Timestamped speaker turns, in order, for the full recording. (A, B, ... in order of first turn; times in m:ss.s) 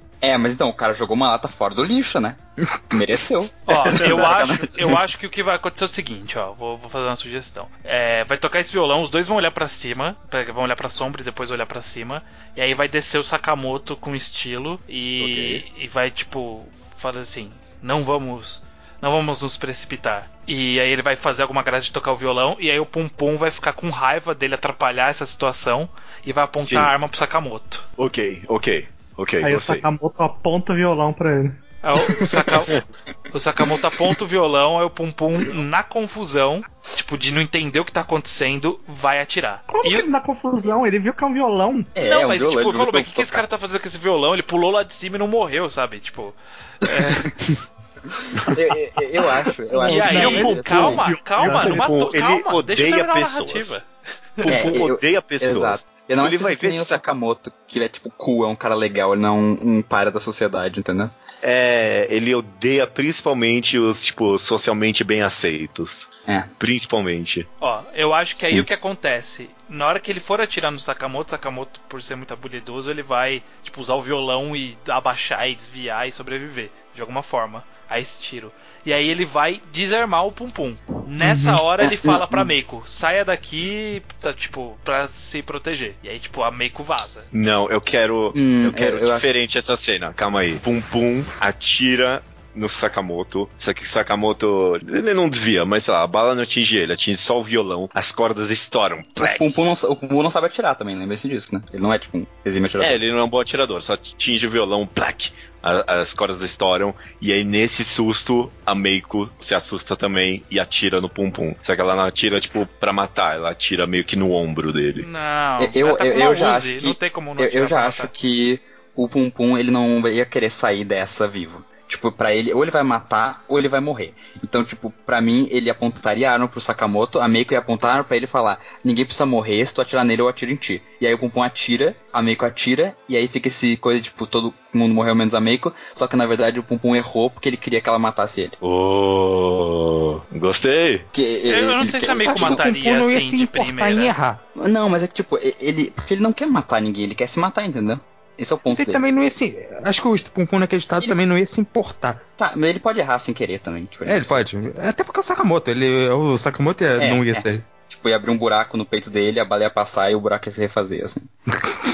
0:00.2-0:05.0 A
0:03.7-0:27.8 B
0:15.2-0:15.6 C
0:26.6-0:26.9 C
0:28.0-0:29.8 C
0:29.4-0:31.6 D
0:31.8-0:32.8 B
0:32.2-0:32.5 A
0:33.3-0:40.1 B
0:39.7-0:42.0 D
0:42.0-0:43.4 A
0:42.0-0:47.3 B
0:46.9-0:47.3 A
0:48.4-0:51.1 A
0:49.7-0:51.8 D
0:49.8-0:53.9 B
0:50.1-0:50.6 C
0:51.4-0:53.8 C
0:54.4-0:57.1 C
0:54.5-1:01.1 A
1:01.4-1:06.1 C
1:06.6-1:07.5 C
1:07.6-1:27.3 B
1:08.4-1:08.7 A
1:21.2-1:21.6 D
1:21.8-1:22.5 A
1:27.3-1:39.6 C
1:28.3-1:29.3 A
1:39.2-1:43.0 A
1:42.8-1:55.1 C
1:55.0-1:58.1 B
1:55.6-2:18.6 A
2:18.6-2:21.1 C
2:21.1-2:22.6 A
2:21.5-2:24.2 B
2:22.0-2:24.4 E
2:24.6-2:29.0 A
2:28.7-2:32.2 E
2:32.4-2:34.4 A
2:34.0-2:37.7 E
2:37.0-2:41.3 A